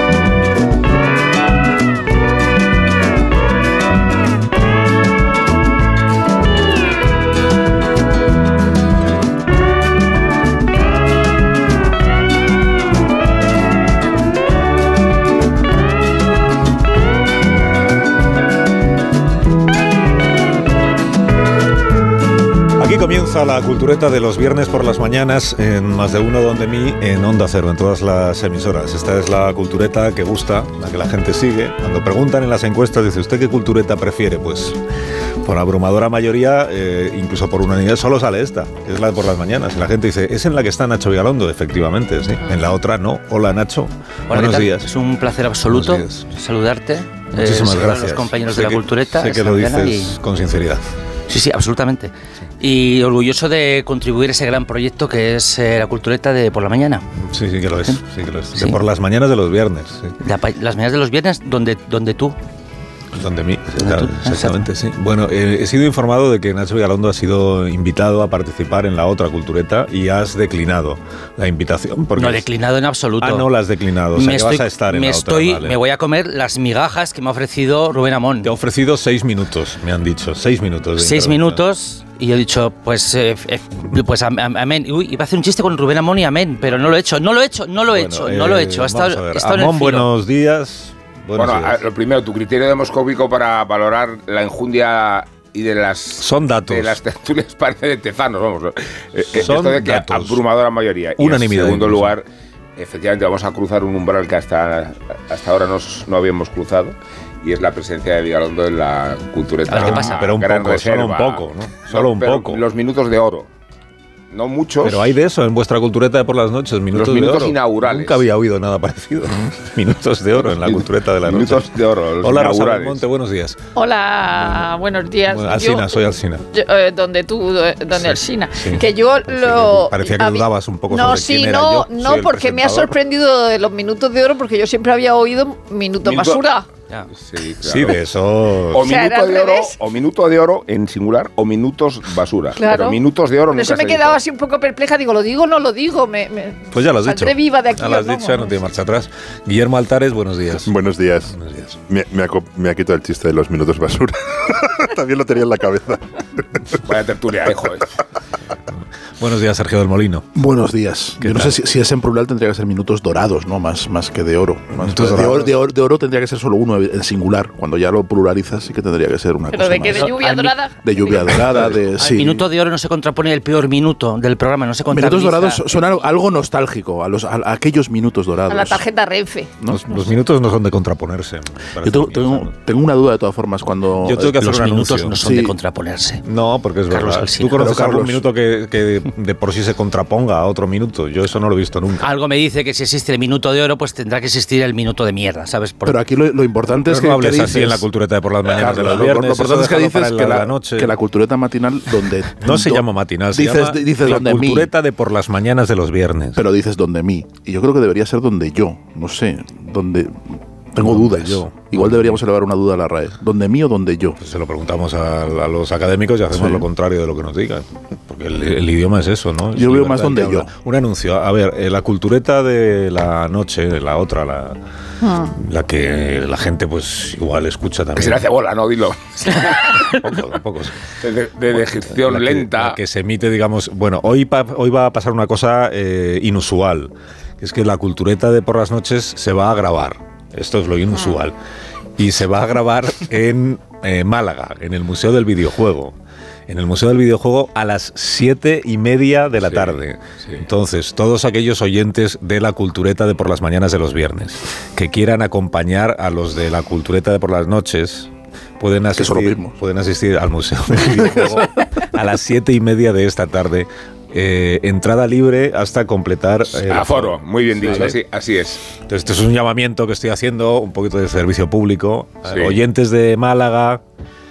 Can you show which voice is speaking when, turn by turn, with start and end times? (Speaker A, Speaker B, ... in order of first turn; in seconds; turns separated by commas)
Speaker A: 22.8-34.8, Speaker A: 35.4-44.9, Speaker B: 44.3-50.2, Speaker A: 45.7-46.2, Speaker A: 47.3-50.8, Speaker B: 51.3-57.1, Speaker A: 57.2-60.1, Speaker B: 58.5-58.8, Speaker B: 60.2-62.4, Speaker A: 63.1-72.5, Speaker B: 63.8-64.7, Speaker B: 72.2-73.5, Speaker A: 73.2-75.8, Speaker B: 74.1-78.5, Speaker A: 78.4-81.6, Speaker B: 81.0-90.1, Speaker A: 87.9-91.8, Speaker C: 91.4-102.2, Speaker A: 96.2-97.0, Speaker A: 99.3-100.4, Speaker A: 101.2-102.1, Speaker C: 102.8-113.5, Speaker B: 109.7-110.3, Speaker A: 109.7-112.6, Speaker C: 114.3-115.1, Speaker A: 114.8-121.7, Speaker C: 116.9-118.2, Speaker C: 120.4-123.0, Speaker A: 122.2-123.6, Speaker D: 123.8-125.9, Speaker A: 125.3-126.4, Speaker D: 126.5-136.7, Speaker A: 127.9-132.9, Speaker C: 136.0-136.4, Speaker C: 137.2-138.0, Speaker A: 137.6-138.9, Speaker C: 138.7-144.2, Speaker D: 138.8-139.7, Speaker D: 142.6-143.0, Speaker D: 143.5-148.5, Speaker A: 146.7-150.7, Speaker E: 150.7-151.3, Speaker A: 151.3-151.8, Speaker E: 151.9-156.0, Speaker C: 156.8-157.9, Speaker A: 158.7-160.3, Speaker F: 160.3-170.1, Speaker A: 161.2-161.6, Speaker A: 164.8-165.6, Speaker D: 169.5-170.8, Speaker B: 169.9-170.5, Speaker F: 170.8-172.4, Speaker B: 171.1-175.7, Speaker F: 174.9-178.8, Speaker D: 178.5-179.5, Speaker A: 179.7-182.6, Speaker F: 181.8-184.3, Speaker A: 184.0-185.2, Speaker B: 184.2-186.2, Speaker F: 185.2-185.5, Speaker A: 186.2-192.1, Speaker B: 186.9-187.6, Speaker F: 187.5-188.2, Speaker B: 192.0-196.0, Speaker F: 195.8-197.9, Speaker A: 196.8-200.9, Speaker F: 198.4-204.7, Speaker A: 202.4-206.4, Speaker F: 206.3-214.2, Speaker A: 210.8-212.2, Speaker A: 214.2-224.6, Speaker F: 216.3-216.7, Speaker F: 219.5-220.5, Speaker D: 225.0-225.3, Speaker A: 225.2-228.2, Speaker C: 227.9-229.7, Speaker A: 229.9-230.7, Speaker C: 231.0-232.8, Speaker A: 231.6-241.3, Speaker A: 242.0-245.9, Speaker A: 246.5-267.9, Speaker C: 249.4-250.4, Speaker F: 258.9-259.6, Speaker F: 260.9-261.4, Speaker C: 266.6-268.6, Speaker F: 267.6-267.9, Speaker A: 268.9-273.8, Speaker C: 272.3-272.6